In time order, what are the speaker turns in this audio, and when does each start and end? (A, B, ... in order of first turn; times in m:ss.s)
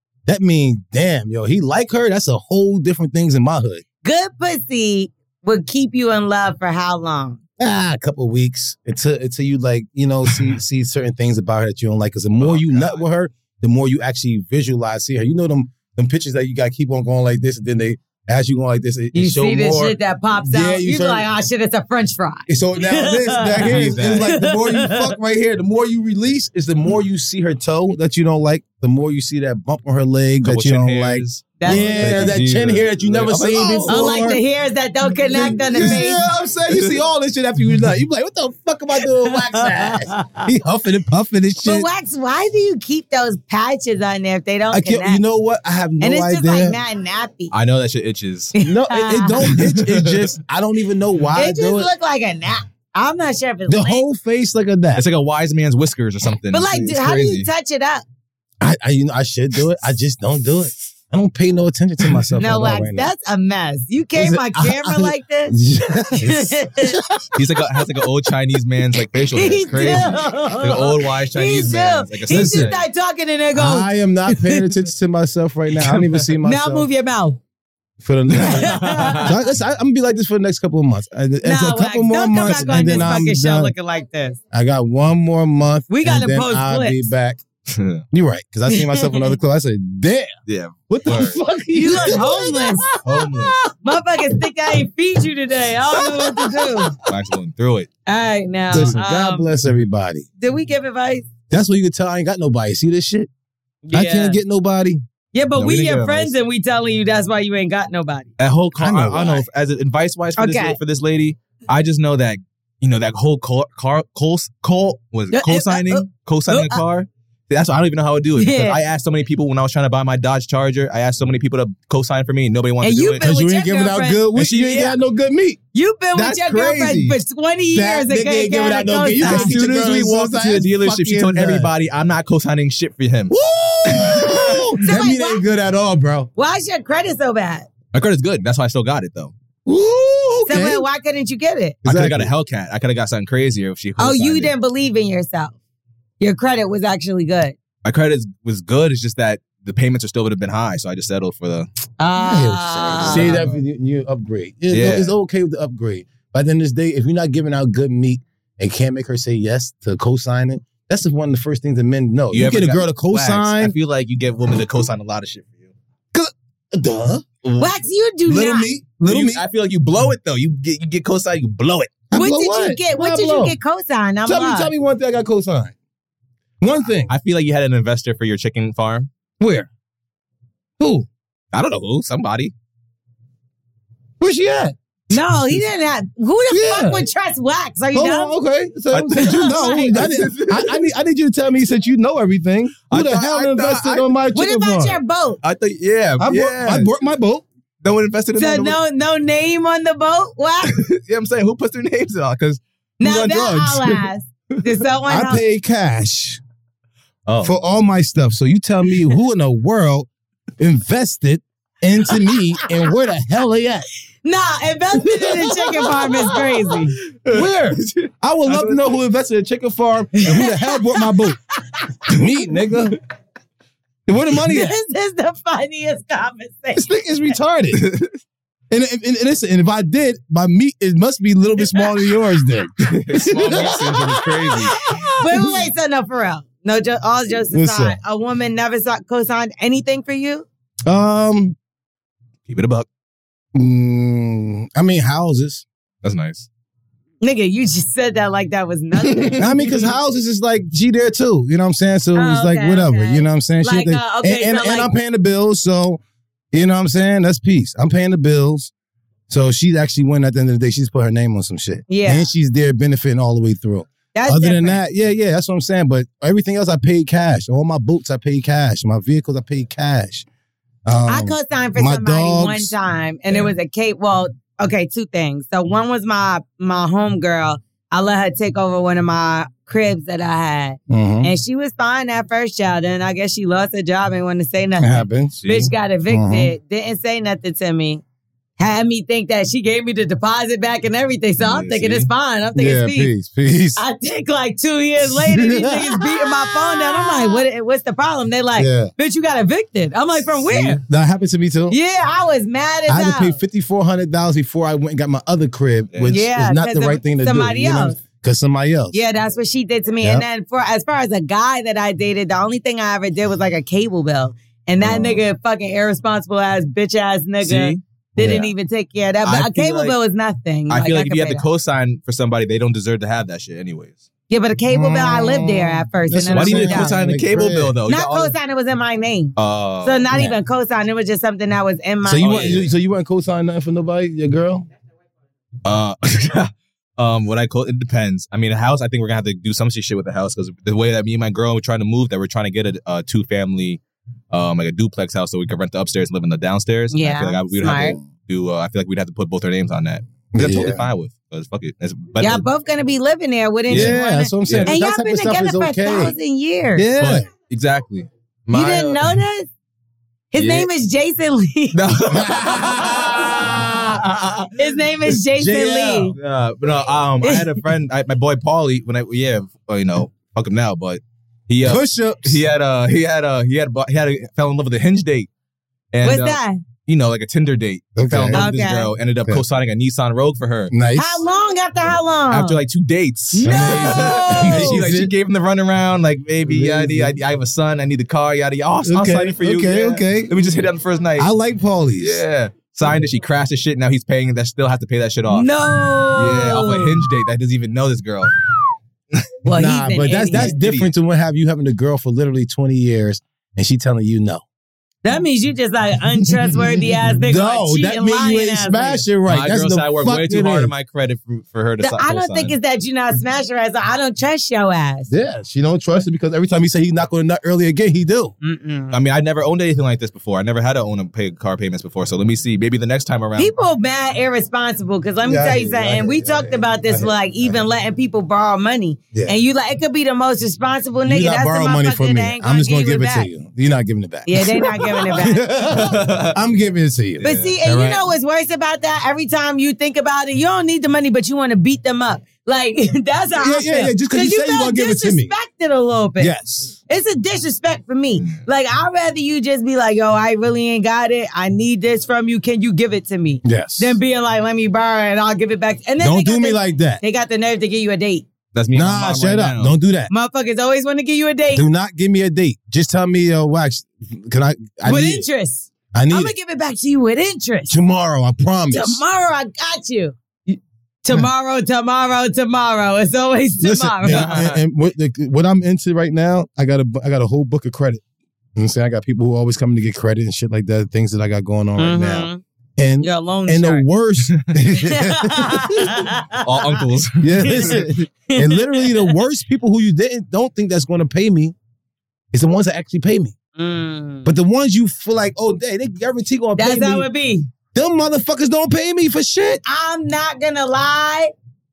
0:00.3-0:03.8 A
0:04.0-0:07.4 B
0:07.6-0:21.3 A
0:12.4-0:13.0 C
0:19.1-0:25.1 B
0:22.5-0:34.4 A
0:23.6-0:24.3 C
0:30.4-0:34.3 C
0:31.6-0:32.4 B
0:33.9-0:36.2 B
0:35.3-0:41.9 A
0:36.7-0:37.0 C
0:39.3-0:40.5 B
0:41.6-0:45.2 B
0:44.7-0:46.8 A
0:46.0-0:47.5 B
0:47.5-0:48.6 C
0:48.6-0:49.4 B
0:48.6-0:51.9 A
0:49.4-0:50.3 C
0:51.4-0:54.0 B
0:53.7-0:55.0 A
0:55.0-0:57.5 C
0:56.5-0:58.0 B
0:58.6-1:03.1 A
1:02.4-1:05.6 B
1:04.2-1:07.8 A
1:06.1-1:07.0 B
1:07.4-1:12.8 C
1:09.4-1:14.7 B
1:12.3-1:12.7 A
1:13.6-1:16.9 A
1:15.9-1:16.2 C
1:16.4-1:17.4 B
1:18.0-1:23.7 A
1:18.3-1:19.3 C
1:18.4-1:19.3 B
1:21.4-1:24.4 B
1:22.7-1:23.0 C
1:24.5-1:27.4 A
1:25.9-1:27.1 B
1:27.7-1:28.0 C
1:28.1-1:30.3 A
1:28.7-1:29.3 B
1:30.5-1:31.4 C
1:30.9-1:33.7 A
1:31.7-1:32.9 B
1:33.0-1:33.6 C
1:33.8-1:37.0 B
1:36.0-1:36.8 A
1:37.0-1:37.9 C
1:38.1-1:39.5 B
1:38.7-1:40.3 A
1:40.4-1:41.3 B
1:41.5-1:43.3 A
1:43.8-1:44.4 B
1:43.9-1:45.0 A
1:45.3-1:48.3 B
1:45.6-1:46.3 C
1:48.4-2:03.3 C
1:48.8-1:49.4 A
1:50.4-1:50.8 B
1:55.3-1:56.8 B
1:58.4-1:58.8 B
2:02.8-2:04.2 B
2:03.2-2:05.6 A
2:04.4-2:05.0 C
2:05.7-2:09.6 B
2:06.2-2:07.2 C
2:07.7-2:11.7 A
2:09.2-2:13.3 C
2:13.3-2:16.3 A
2:13.9-2:14.8 C
2:14.8-2:15.4 B
2:16.4-2:17.7 B
2:17.9-2:19.3 C
2:19.7-2:20.8 A
2:20.5-2:21.8 B
2:21.8-2:22.3 A
2:21.8-2:24.5 C
2:24.0-2:25.6 B
2:26.2-2:27.6 B
2:27.8-2:31.7 C
2:32.0-2:33.4 B
2:32.2-2:43.8 A
2:33.0-2:33.6 C
2:34.7-2:35.1 C
2:42.3-2:45.7 C
2:46.1-2:47.3 A
2:47.4-2:47.7 C
2:47.6-2:48.7 B
2:48.2-2:49.4 A
2:49.0-2:52.0 C
2:52.1-2:53.6 A
2:52.1-2:54.7 B
2:54.3-2:55.7 A
2:56.6-2:57.1 A
2:57.1-2:59.1 C
2:59.4-2:59.7 A
3:00.8-3:01.1 A
3:01.5-3:02.5 C
3:04.2-3:05.6 A
3:05.1-3:08.3 B
3:06.5-3:07.1 A
3:07.9-3:15.0 A
3:08.9-3:10.8 C
3:09.2-3:10.0 B
3:12.9-3:14.1 C
3:14.3-3:15.4 B
3:15.4-3:16.9 C
3:16.2-3:17.4 A
3:17.8-3:18.8 C
3:18.4-3:20.7 B
3:20.7-3:22.6 C
3:23.0-3:25.4 B
3:23.0-3:23.9 A
3:25.1-3:26.4 A
3:27.3-3:27.6 C
3:27.4-3:30.1 A
3:30.6-3:33.9 A
3:34.2-3:37.0 B
3:36.7-3:39.0 C
3:37.3-3:41.4 A
3:40.2-3:41.2 B
3:42.1-3:43.0 A
3:44.1-3:44.7 A
3:44.4-3:46.9 B
3:46.8-3:47.8 A
3:47.7-3:48.1 C
3:48.7-3:55.6 A
3:52.9-3:54.9 C
3:54.7-4:00.5 B
3:57.5-3:58.0 A
4:00.9-4:01.6 A
4:02.5-4:02.9 C
4:03.6-4:05.6 A
4:06.0-4:06.5 C
4:07.2-4:09.9 B
4:09.1-4:09.4 C
4:09.4-4:16.0 A
4:12.2-4:14.9 B
4:16.5-4:18.7 A
4:19.3-4:30.3 A
4:21.9-4:22.3 B
4:24.1-4:24.8 B
4:30.9-4:32.7 A
4:31.1-4:48.0 B
4:40.9-4:41.3 A
4:44.8-4:45.5 A
4:45.4-4:45.7 C
4:46.1-4:46.5 A
4:48.6-4:53.1 B
4:51.4-4:52.1 C
4:52.6-4:53.8 A
4:53.8-5:00.8 B
4:55.1-4:57.4 A
4:58.6-4:58.9 A
5:00.4-5:01.8 A
5:01.7-5:03.4 B
5:02.9-5:09.0 A
5:05.9-5:06.2 C
5:06.1-5:08.0 B
5:08.9-5:21.4 B
5:14.8-5:15.2 A
5:17.4-5:17.8 C
5:18.2-5:18.5 A
5:19.2-5:20.0 C
5:20.7-5:24.0 C
5:24.3-5:27.0 B
5:24.7-5:27.7 A
5:26.3-5:28.3 C
5:27.9-5:32.6 B
5:29.4-5:30.0 C
5:32.0-5:34.7 A
5:32.2-5:32.7 C
5:35.6-5:43.8 C
5:44.3-5:52.4 C
5:46.9-5:48.0 B
5:50.3-5:50.8 A
5:52.2-5:56.9 B
5:53.7-5:54.7 C
5:53.7-5:56.2 A
5:56.8-5:57.3 A
5:57.0-5:58.1 C
5:58.5-5:59.1 A
5:58.5-5:59.5 B
6:00.3-6:01.8 B
6:00.4-6:00.7 C
6:01.7-6:04.6 C
6:02.1-6:03.9 A
6:04.6-6:06.2 B
6:05.3-6:06.2 A
6:06.2-6:15.3 C
6:07.2-6:07.6 B
6:11.6-6:12.4 A
6:15.9-6:20.7 C
6:16.0-6:16.6 B
6:18.0-6:18.5 A
6:18.3-6:18.9 B
6:20.7-6:21.2 A
6:21.0-6:22.6 B
6:22.3-6:31.3 C
6:23.3-6:24.8 B
6:23.4-6:25.1 A
6:26.5-6:27.2 A
6:28.8-6:30.4 A
6:31.2-6:32.2 A
6:32.0-6:35.5 C
6:35.3-6:37.0 B
6:36.2-6:38.3 C
6:39.4-6:40.6 B
6:39.5-6:44.4 A
6:40.3-6:40.9 C
6:45.0-6:49.0 B
6:47.2-6:50.7 A
6:49.3-6:52.6 C
6:51.8-6:55.1 B
6:55.1-6:58.3 A
6:58.4-6:59.0 B
6:58.9-7:03.5 C
7:03.4-7:13.3 B
7:05.2-7:07.6 A
7:11.1-7:18.1 A
7:14.3-7:15.5 B
7:15.7-7:16.3 C
7:17.2-7:17.5 C
7:17.2-7:26.3 B
7:23.4-7:25.3 A
7:26.2-7:26.8 A
7:26.9-7:38.3 B
7:33.4-7:34.0 A
7:36.0-7:37.0 A
7:38.5-7:39.8 C
7:38.7-7:40.1 A
7:40.1-7:41.6 B
7:41.5-7:45.3 A
7:44.8-7:47.8 B
7:45.9-7:46.3 A
7:47.7-7:49.0 A
7:48.7-7:54.4 B
7:53.6-7:58.0 A
7:54.1-7:54.6 C
7:58.6-8:06.1 A
8:01.8-8:02.4 B
8:03.0-8:03.8 B
8:04.8-8:06.8 B
8:06.4-8:07.8 C
8:07.2-8:11.6 A
8:07.4-8:09.1 B
8:12.3-8:13.3 A
8:13.6-8:14.3 B
8:14.2-8:17.1 A
8:16.6-8:17.5 B
8:17.7-8:19.6 A
8:19.6-8:21.3 B